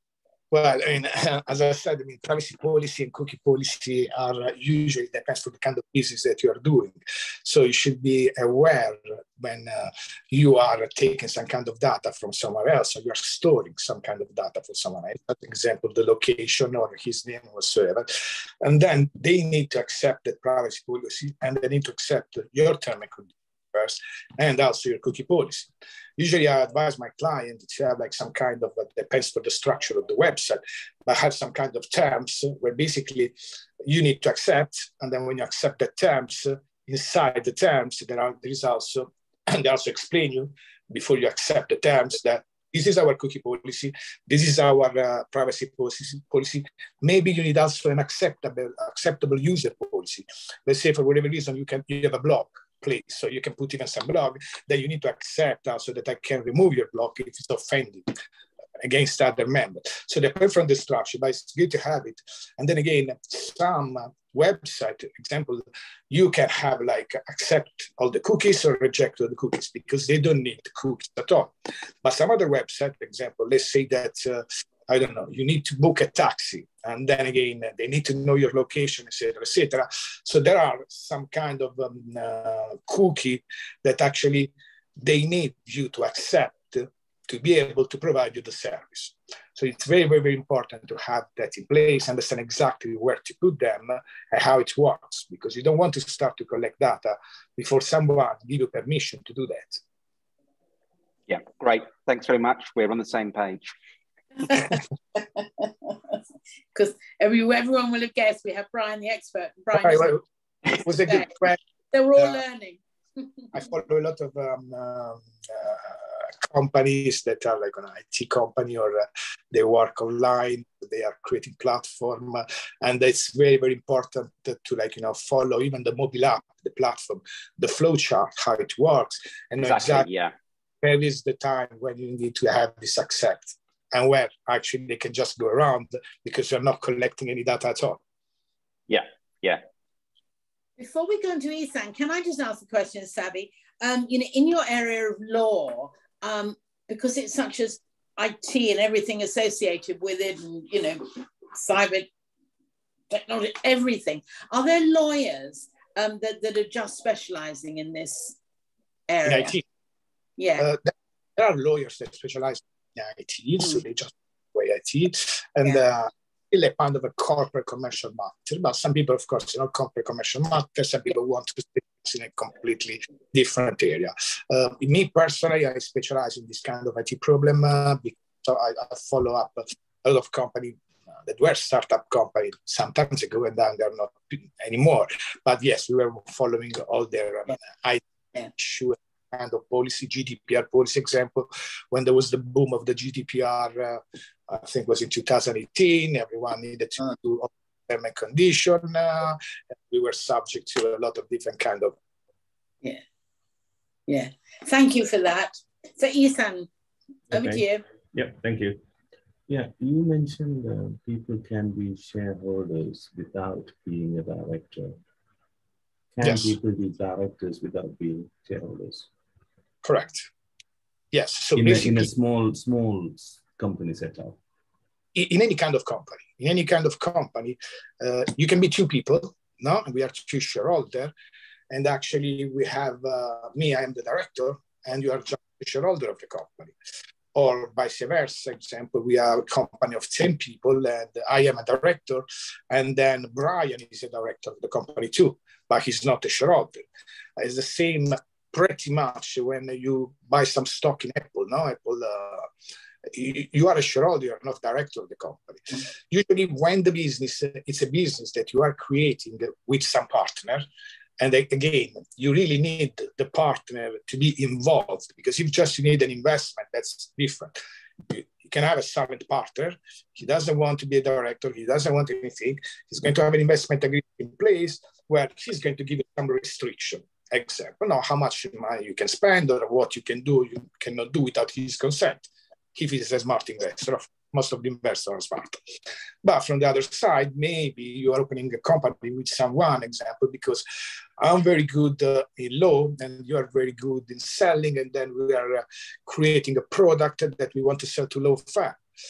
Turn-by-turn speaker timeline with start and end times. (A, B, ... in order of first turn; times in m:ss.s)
0:00.5-0:58.1 A
0:58.8-1:11.5 A
1:12.0-1:39.8 A
1:41.3-1:43.7 B
1:44.5-1:46.2 C
1:46.7-1:50.2 C
1:49.8-1:50.2 A
1:50.7-1:51.6 A
1:50.9-1:51.3 C
1:51.9-1:52.8 C
1:53.5-2:10.1 A
2:09.6-2:10.3 B
2:10.8-2:18.0 A
2:18.9-2:19.6 B
2:20.8-2:32.1 C
2:33.1-2:38.4 C
2:39.1-2:39.6 C
2:39.3-2:39.6 A
2:40.4-2:40.7 C
2:40.6-3:22.0 A
3:24.1-3:26.7 C
3:27.3-3:27.8 C
3:27.3-3:28.8 D
3:29.5-3:35.0 D
3:36.1-3:39.1 D
3:36.2-3:36.6 A
3:39.8-3:40.3 A
3:41.1-3:42.1 A
3:41.6-3:44.4 D
3:45.2-3:51.1 A
3:51.7-3:56.8 A
3:57.3-4:06.8 A
4:07.4-4:12.5 A
4:13.1-4:20.6 A
4:21.2-4:45.6 A
4:46.2-4:50.6 A
4:51.2-4:58.8 A